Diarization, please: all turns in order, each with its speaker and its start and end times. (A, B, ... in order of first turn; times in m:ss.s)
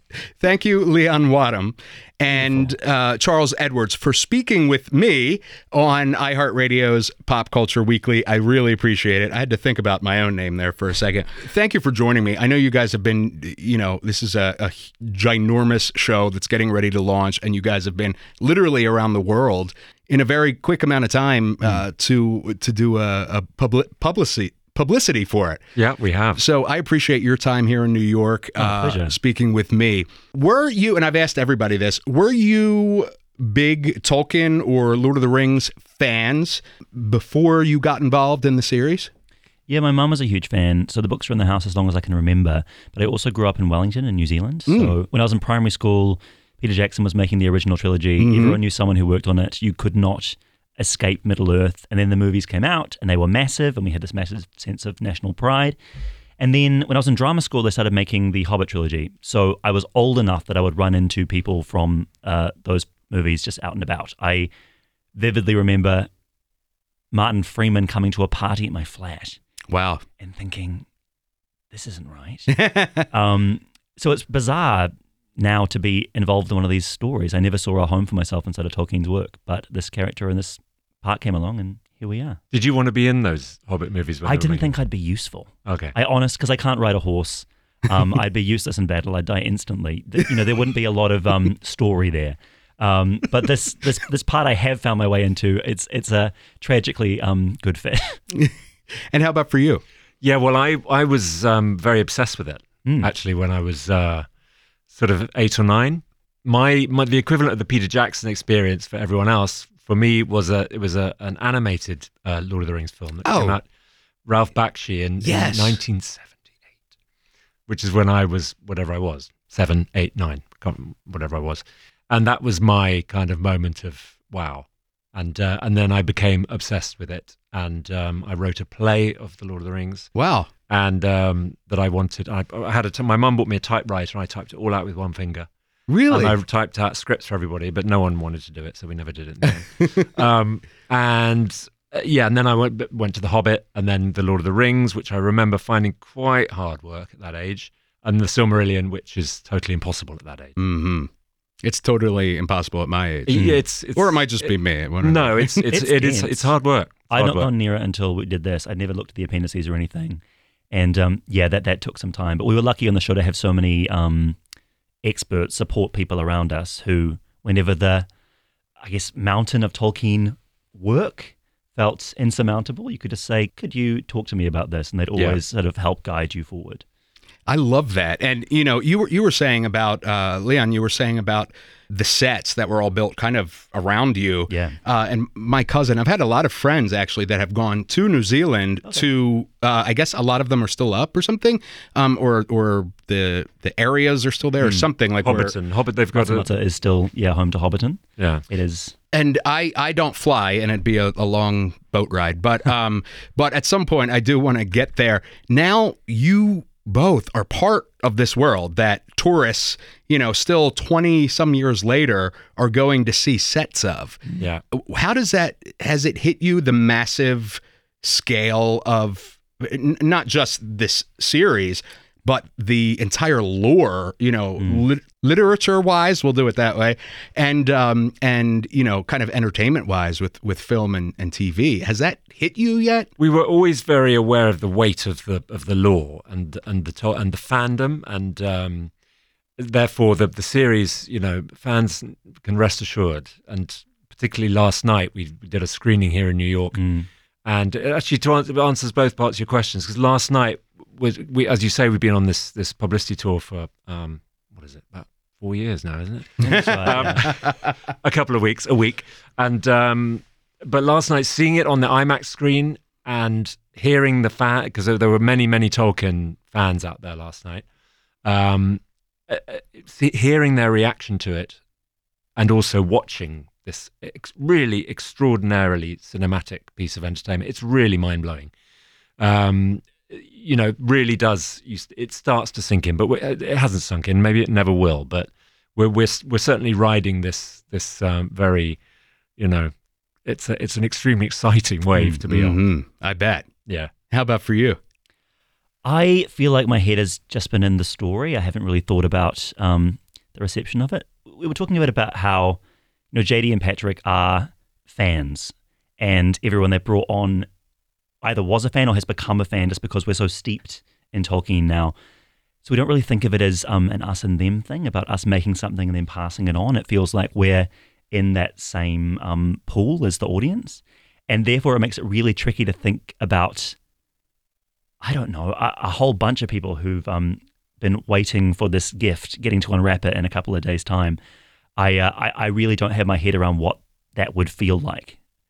0:00.4-0:25.6 A
0:02.3-0:02.8 B
0:25.8-0:26.4 C
0:26.4-0:39.1 A
0:28.6-0:29.2 B
0:39.7-0:55.8 B
0:44.7-0:45.0 A
0:48.2-0:48.6 A
0:56.4-1:04.5 B
1:05.2-1:06.1 B
1:07.1-1:09.4 B
1:09.7-1:10.0 A
1:10.2-1:10.9 B
1:11.7-1:12.6 B
1:12.5-1:13.1 A
1:13.1-1:22.4 B
1:22.5-1:24.8 C
1:24.2-1:38.2 B
1:25.6-1:26.0 C
1:39.1-1:39.8 A
1:40.2-1:44.3 C
1:42.8-1:43.1 B
1:44.9-1:53.6 C
1:53.2-1:53.6 A
1:54.3-1:56.4 C
1:55.2-1:55.8 A
1:57.7-2:10.1 C
2:10.2-2:10.5 A
2:10.7-2:15.5 C
2:15.9-2:16.4 A
2:16.1-2:30.6 C
2:30.6-2:31.1 A
2:31.6-2:35.7 A
2:33.3-2:37.5 C
2:35.7-2:40.2 B
2:40.7-2:44.4 B
2:45.0-2:48.1 B
2:48.8-2:56.8 B
2:55.2-2:55.4 C
2:57.5-3:15.5 A
3:04.5-3:04.8 B
3:14.6-3:14.9 B
3:15.2-3:16.5 C
3:16.1-3:18.9 B
3:18.2-3:18.4 C
3:19.1-3:34.2 A
3:34.7-3:53.1 A
3:44.6-3:44.9 B
3:53.2-3:58.9 C
3:59.6-4:06.8 C
4:06.8-4:07.1 B
4:07.4-4:27.6 C
4:16.4-4:17.4 B
4:16.5-4:17.5 A
4:28.2-4:31.6 C
4:32.4-4:38.5 C
4:39.2-4:48.8 C
4:49.4-4:49.7 C
4:50.2-4:52.6 C
4:52.1-4:53.5 A
4:54.1-4:54.8 A
4:55.8-5:02.6 B
5:03.1-5:07.5 B
5:08.2-5:12.0 B
5:12.6-5:23.8 B
5:25.0-5:31.2 B
5:31.8-5:35.2 B